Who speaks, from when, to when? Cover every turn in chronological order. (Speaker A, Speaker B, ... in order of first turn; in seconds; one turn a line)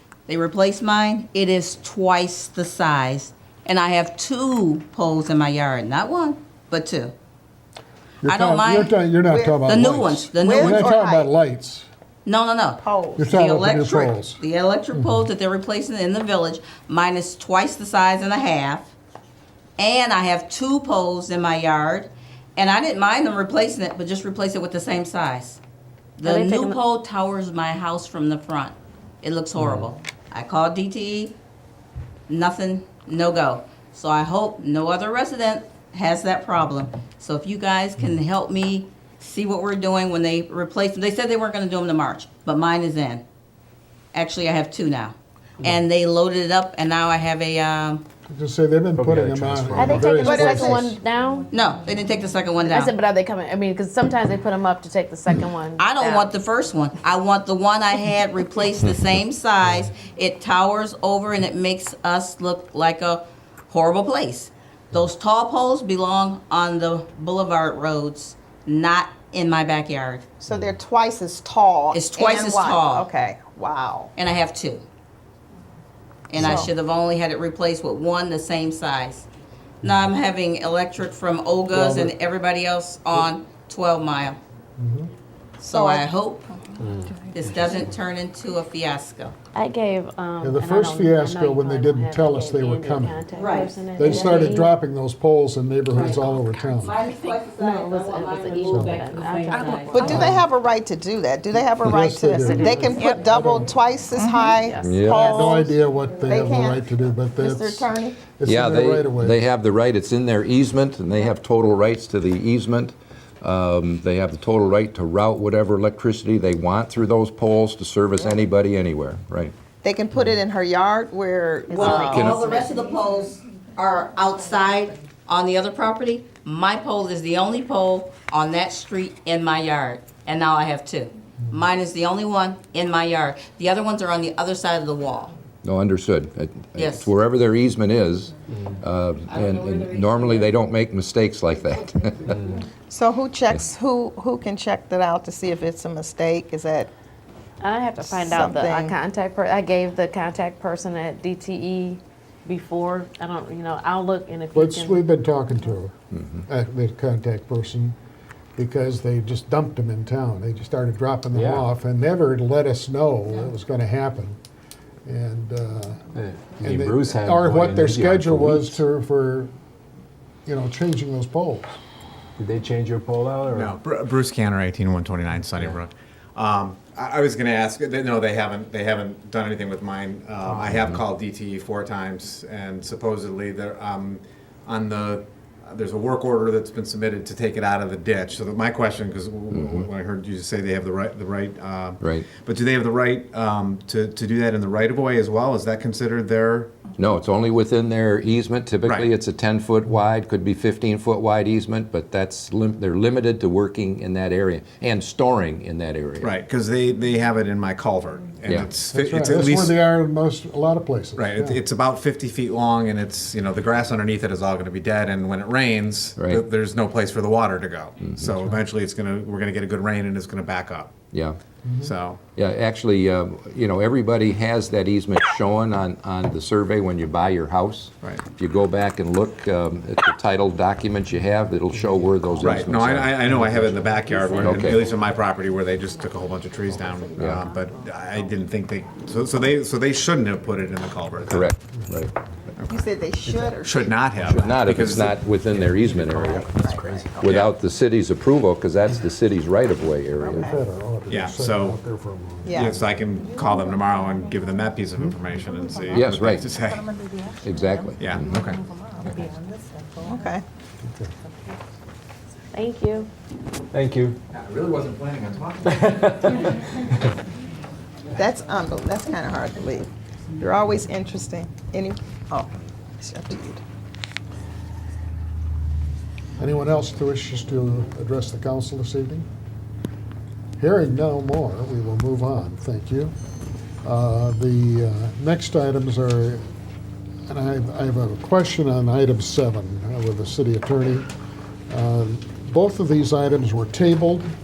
Speaker A: 0.3-7.1
Speaker B: 8.2-11.9
Speaker A: 8.2-8.9
Speaker C: 9.3-9.7
Speaker A: 9.7-10.9
Speaker C: 10.4-11.3
Speaker A: 12.2-18.9
Speaker C: 12.8-13.2
Speaker B: 13.2-14.4
Speaker B: 14.9-15.3
Speaker A: 19.8-25.6
Speaker A: 26.2-31.3
Speaker D: 26.2-26.8
Speaker B: 29.6-29.9
Speaker A: 32.3-43.2
Speaker A: 44.1-48.0
Speaker B: 48.3-51.0
Speaker E: 48.9-50.3
Speaker D: 49.7-51.5
Speaker C: 50.2-50.8
Speaker A: 51.5-52.9
Speaker D: 52.6-56.3
Speaker A: 55.8-70.2
Speaker C: 70.4-74.1
Speaker A: 71.9-73.1
Speaker A: 74.2-74.8
Speaker A: 76.3-79.3
Speaker C: 76.4-76.7
Speaker A: 79.8-84.4
Speaker B: 81.7-82.1
Speaker B: 84.8-85.1
Speaker A: 85.6-86.5
Speaker C: 85.6-86.6
Speaker E: 86.8-87.2
Speaker A: 87.3-89.3
Speaker D: 89.5-94.7
Speaker B: 90.4-93.2
Speaker A: 93.3-94.2
Speaker B: 93.9-97.0
Speaker A: 95.9-100.2
Speaker D: 97.2-100.4
Speaker B: 98.7-99.0
Speaker C: 99.9-105.7
Speaker B: 100.0-100.4
Speaker B: 101.8-103.7
Speaker D: 102.4-103.2
Speaker D: 104.5-105.7
Speaker F: 104.8-105.3
Speaker B: 105.2-109.4
Speaker C: 106.2-106.8
Speaker C: 107.4-108.2
Speaker F: 108.4-119.5
Speaker C: 119.8-122.6
Speaker A: 121.7-135.3
Speaker F: 121.8-122.5
Speaker F: 135.6-142.4
Speaker A: 136.8-137.1
Speaker E: 138.5-138.8
Speaker E: 142.3-142.6
Speaker C: 142.9-146.9
Speaker D: 147.6-155.0
Speaker C: 148.0-148.9
Speaker B: 154.5-157.9
Speaker F: 156.1-156.4
Speaker B: 158.6-164.4
Speaker E: 161.3-161.7
Speaker B: 165.0-166.0
Speaker E: 166.1-168.8
Speaker B: 166.6-169.5
Speaker B: 170.4-171.8
Speaker E: 172.4-173.8
Speaker G: 173.5-196.7
Speaker F: 189.5-189.9
Speaker F: 192.0-192.3
Speaker F: 197.0-206.3
Speaker G: 206.2-209.8
Speaker F: 208.4-208.7
Speaker B: 208.9-211.6
Speaker G: 211.2-220.9
Speaker F: 216.2-216.4
Speaker F: 218.0-218.4
Speaker F: 221.1-221.4
Speaker B: 221.6-221.9
Speaker G: 221.8-222.2
Speaker F: 222.3-233.9
Speaker B: 232.0-232.5
Speaker G: 232.4-241.5
Speaker D: 234.1-235.1
Speaker F: 234.4-235.0
Speaker D: 236.0-238.3
Speaker F: 237.2-237.5
Speaker F: 241.2-242.1
Speaker C: 242.6-243.9
Speaker E: 243.2-243.6
Speaker G: 243.6-245.1
Speaker E: 244.2-244.6
Speaker F: 244.3-250.5
Speaker E: 245.8-247.2
Speaker C: 246.0-247.3
Speaker G: 247.2-247.5
Speaker C: 250.2-250.6
Speaker B: 250.3-252.9
Speaker G: 251.1-251.8
Speaker C: 252.4-253.3
Speaker G: 252.6-257.1
Speaker F: 255.9-256.6
Speaker C: 256.0-256.5
Speaker F: 257.4-258.5
Speaker G: 258.0-258.6
Speaker C: 260.0-260.4
Speaker B: 260.8-261.1
Speaker D: 262.5-263.1
Speaker E: 263.7-264.2
Speaker G: 264.3-265.6
Speaker E: 265.6-266.6
Speaker C: 268.1-273.6
Speaker B: 276.4-279.3
Speaker B: 280.6-283.1
Speaker B: 283.8-286.4
Speaker B: 287.3-291.1
Speaker B: 291.7-294.3